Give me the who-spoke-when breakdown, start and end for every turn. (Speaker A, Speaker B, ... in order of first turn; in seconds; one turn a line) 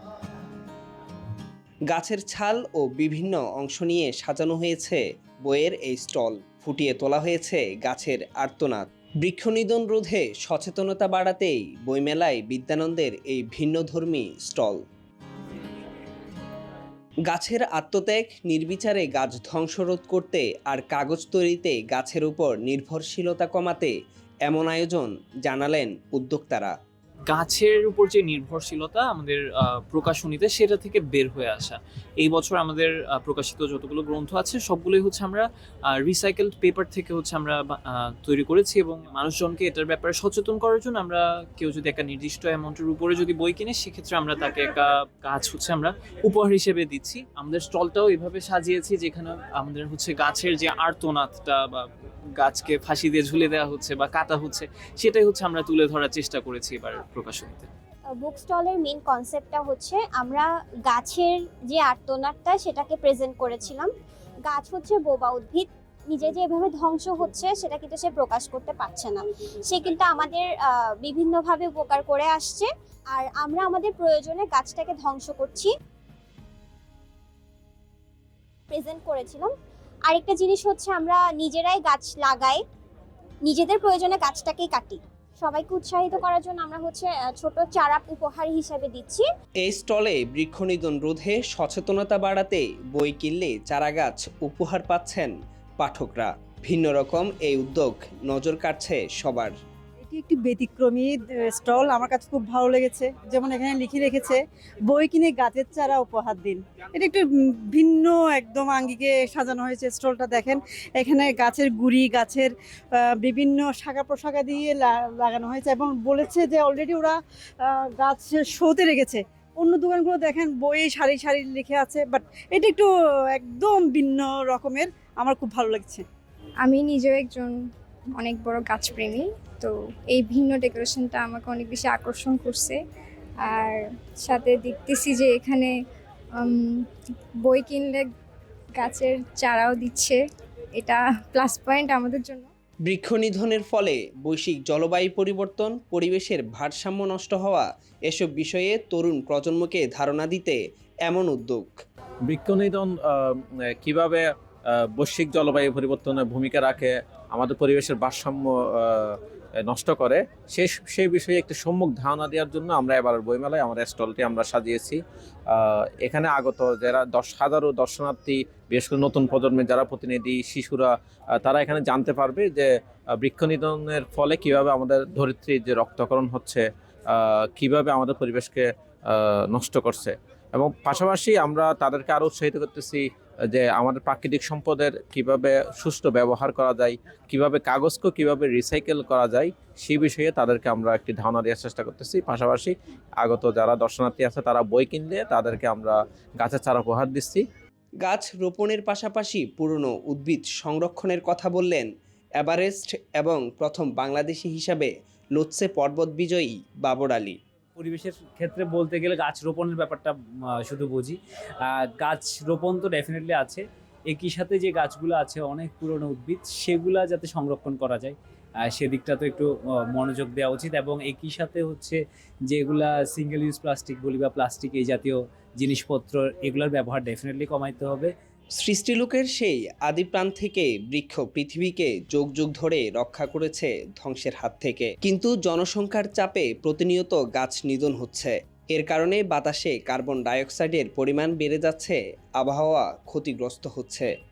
Speaker A: 1.9-14.8
Speaker A: 17.3-23.9
Speaker A: 24.4-26.7
Speaker B: 27.3-57.7
Speaker C: 58.1-63.9
Speaker C: 64.5-75.7
Speaker C: 78.7-79.5
Speaker C: 80.1-82.6
Speaker C: 83.4-89.3
Speaker A: 89.6-99.5
Speaker D: 100.0-126.0
Speaker E: 126.6-127.5
Speaker E: 128.2-132.8
Speaker E: 133.5-135.7
Speaker E: 136.4-136.8
Speaker E: 137.4-138.1
Speaker E: 138.8-140.2
Speaker E: 140.8-142.5
Speaker A: 142.8-151.8
Speaker F: 152.3-197.4
Speaker A: 198.0-207.4
Speaker G: 207.8-228.1
Speaker A: 228.6-244.1